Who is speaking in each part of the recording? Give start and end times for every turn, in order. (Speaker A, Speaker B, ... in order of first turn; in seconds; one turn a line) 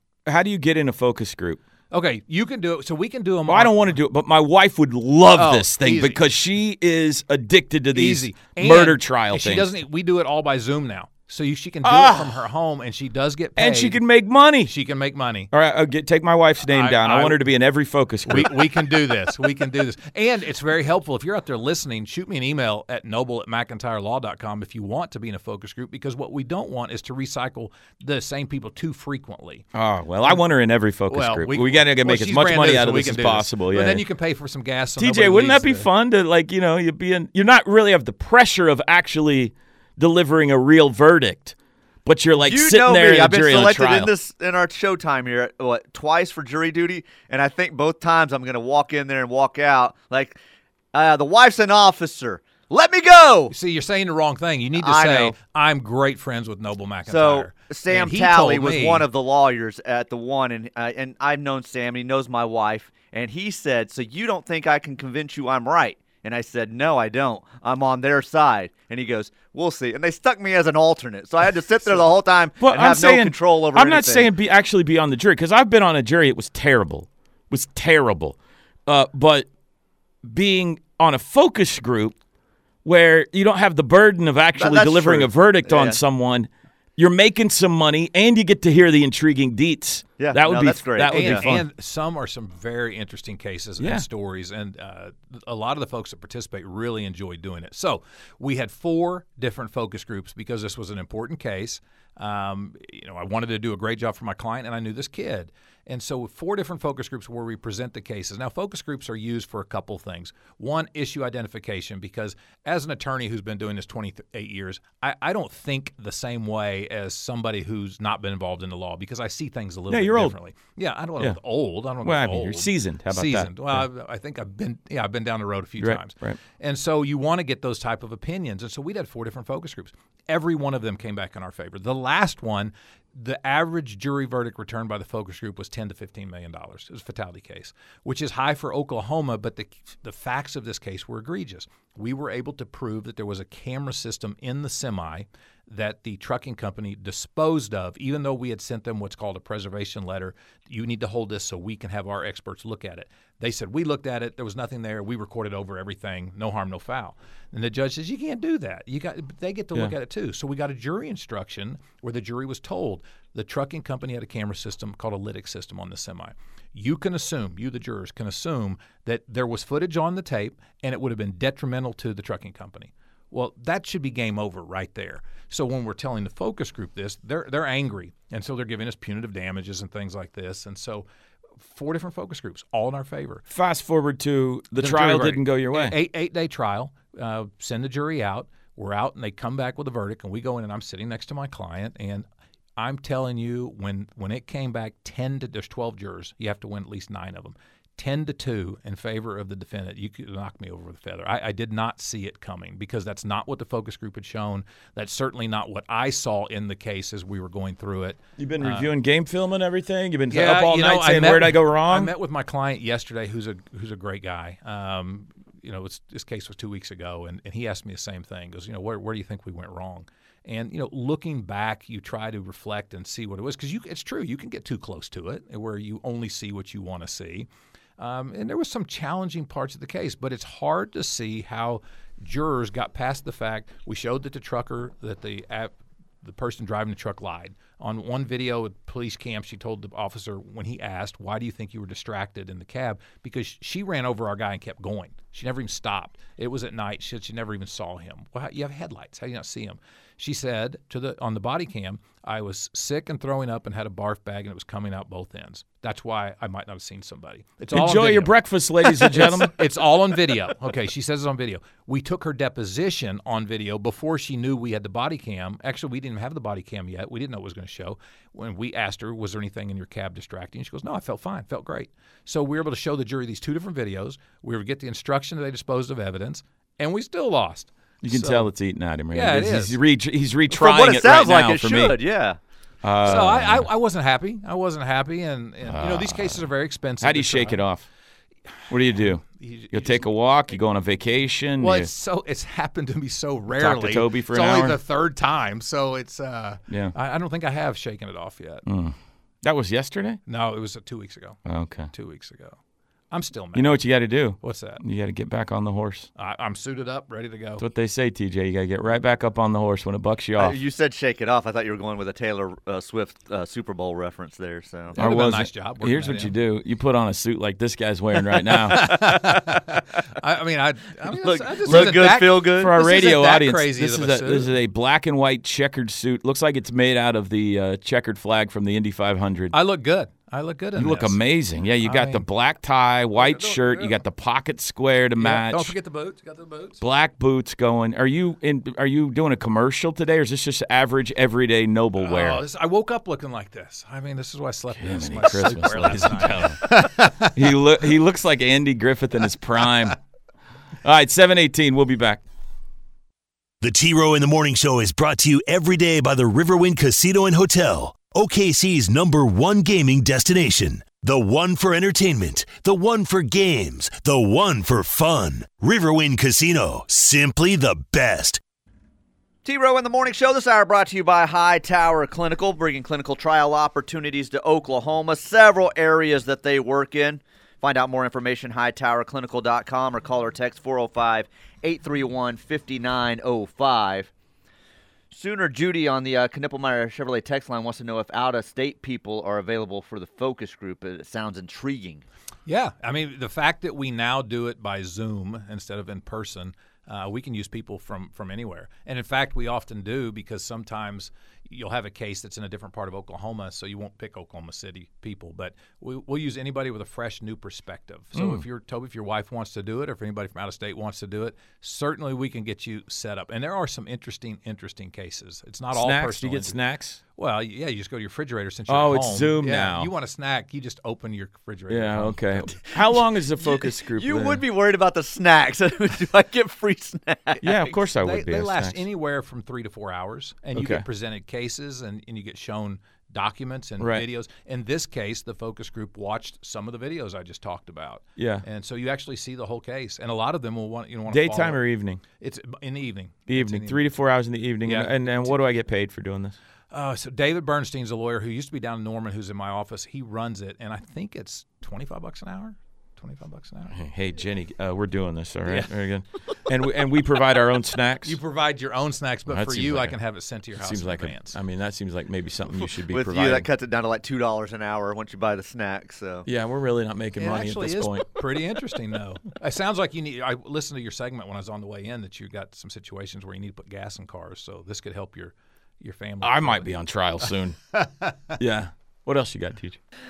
Speaker A: 0.2-1.6
Speaker B: 1.9-4.0
Speaker A: 3.5-9.7
Speaker B: 5.3-6.2
Speaker B: 7.9-14.0
Speaker A: 11.8-12.4
Speaker A: 13.6-14.7
Speaker B: 14.6-15.5
Speaker A: 15.5-18.9
Speaker B: 16.7-17.4
Speaker B: 18.2-29.6
Speaker A: 29.7-34.0
Speaker B: 31.1-35.9
Speaker A: 35.0-44.1
Speaker C: 42.4-50.4
Speaker C: 50.9-53.5
Speaker B: 53.5-59.0
Speaker C: 54.8-55.3
Speaker C: 57.0-74.3
Speaker A: 72.6-79.5
Speaker A: 80.2-82.2
Speaker A: 82.8-91.7
Speaker C: 84.6-86.0
Speaker C: 90.2-91.5
Speaker B: 91.1-181.1
Speaker A: 93.8-94.1
Speaker A: 119.9-120.4
Speaker A: 122.0-123.9
Speaker A: 125.8-126.4
Speaker B: 181.6-183.4
Speaker A: 183.5-186.0
Speaker B: 184.8-192.2
Speaker B: 192.8-208.9
Speaker A: 208.4-212.1
Speaker B: 210.3-278.5
Speaker A: 257.7-259.6
Speaker A: 278.0-282.0
Speaker B: 279.1-279.8
Speaker C: 280.5-282.4
Speaker A: 282.8-283.7
Speaker B: 283.0-287.6
Speaker A: 285.6-286.5
Speaker A: 287.0-287.9
Speaker A: 288.7-291.9
Speaker B: 289.0-290.0
Speaker B: 291.6-298.6
Speaker A: 293.5-294.8
Speaker A: 296.7-296.9
Speaker A: 298.6-300.2
Speaker B: 300.3-301.4
Speaker A: 301.4-301.9
Speaker B: 301.9-302.6
Speaker B: 303.1-303.8
Speaker A: 303.5-306.1
Speaker B: 304.4-304.8
Speaker B: 306.2-307.6
Speaker A: 307.6-310.6
Speaker C: 310.4-315.0
Speaker B: 314.9-316.3
Speaker A: 314.9-319.2
Speaker B: 318.4-324.5
Speaker C: 321.1-322.7
Speaker A: 321.6-329.5
Speaker B: 329.5-331.2
Speaker A: 330.7-335.7
Speaker B: 331.8-332.2
Speaker B: 333.1-334.0
Speaker B: 335.2-336.8
Speaker A: 336.8-342.4
Speaker B: 342.0-347.4
Speaker A: 344.7-350.0
Speaker A: 350.8-352.2
Speaker D: 353.6-368.4
Speaker C: 369.4-384.1
Speaker C: 385.1-392.0
Speaker B: 392.4-416.6
Speaker A: 408.1-408.4
Speaker A: 415.7-417.0
Speaker B: 417.1-422.7
Speaker A: 418.7-419.9
Speaker A: 421.7-424.4
Speaker C: 423.4-427.5
Speaker A: 427.4-428.9
Speaker B: 427.9-441.6
Speaker A: 430.5-430.8
Speaker A: 433.8-434.1
Speaker A: 438.2-438.4
Speaker A: 441.1-442.0
Speaker B: 442.2-443.8
Speaker A: 443.3-446.4
Speaker B: 444.6-445.4
Speaker B: 446.7-453.7
Speaker A: 453.7-458.2
Speaker B: 458.0-461.4
Speaker A: 459.3-459.9
Speaker A: 460.5-463.5
Speaker C: 462.9-466.3
Speaker A: 466.2-468.1
Speaker B: 467.2-476.7
Speaker A: 476.2-477.6
Speaker B: 477.7-478.1
Speaker A: 478.4-479.8